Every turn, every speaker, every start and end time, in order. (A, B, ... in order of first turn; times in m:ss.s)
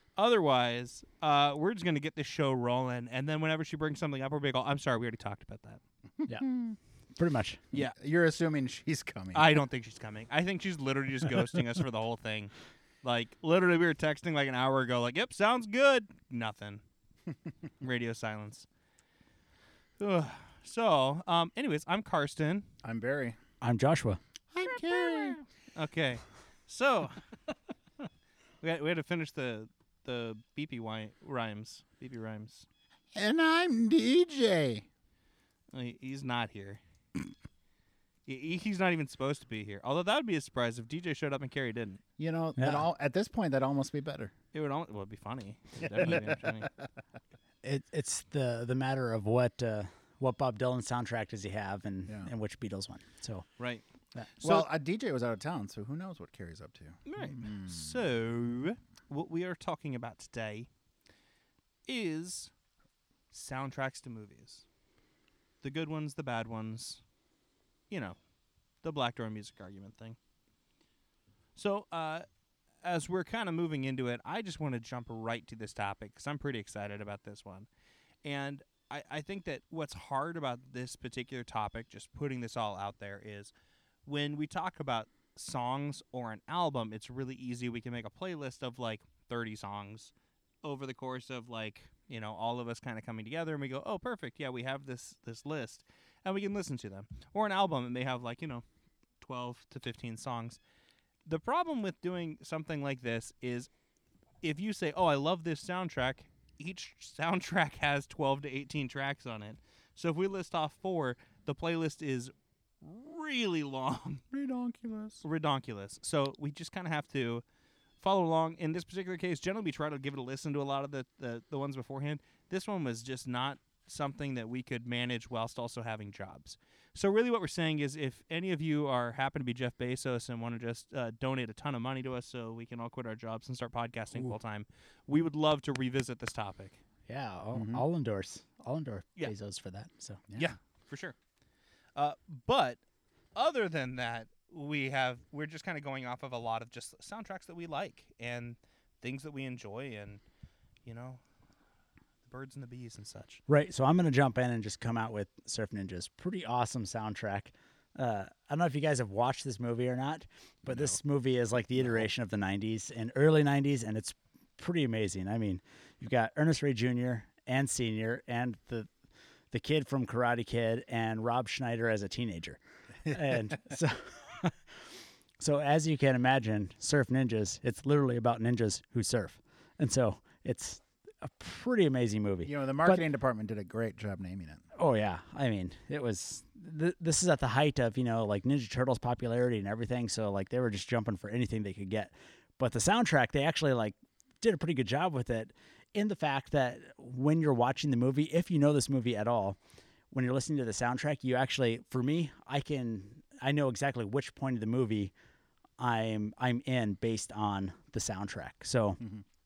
0:00.2-0:05.8 A
0:06.2-0:06.8 B
0:06.3-0:06.6 C
0:07.2-0:07.6 C
0:07.7-0:09.5 B
0:09.3-0:16.8 A
0:17.8-0:18.7 A
0:20.0-0:22.7 A
0:22.8-0:23.4 B
0:23.6-0:24.2 C
0:24.5-0:25.4 B
0:24.7-0:27.2 A
0:28.6-0:32.6 A
0:33.1-0:34.8 B
0:35.7-0:36.8 A
0:38.2-0:42.0 A
0:42.2-0:44.3 B
0:42.6-0:42.9 C
0:44.5-0:46.7 A
0:45.9-0:46.8 B
0:47.6-0:53.5 C
0:53.6-0:53.8 A
0:54.4-0:54.7 A
0:54.4-0:58.0 B
0:57.0-1:00.7 A
1:01.8-1:02.5 A
1:03.3-1:04.6 A
1:05.6-1:07.0 A
1:07.9-1:08.2 A
1:08.8-1:10.2 A
1:11.5-1:12.2 A
1:12.8-1:17.7 A
1:18.2-1:23.5 A
1:24.0-1:38.6 A
1:39.2-1:40.6 A
1:41.2-1:43.7 A
1:44.4-1:54.2 A
1:54.3-1:55.2 B
1:55.2-1:57.4 A
1:58.0-2:16.8 A
2:17.1-2:20.2 C
2:17.5-2:17.8 B
2:20.4-2:21.1 A
2:22.0-2:22.8 A
2:23.3-2:30.2 A
2:30.8-2:31.2 A
2:32.3-2:33.4 A
2:33.5-2:48.9 C
2:40.7-2:41.0 B
2:49.5-3:03.0 C
3:02.4-3:04.6 B
3:04.8-3:19.6 C
3:20.1-3:25.1 C
3:25.8-3:29.0 C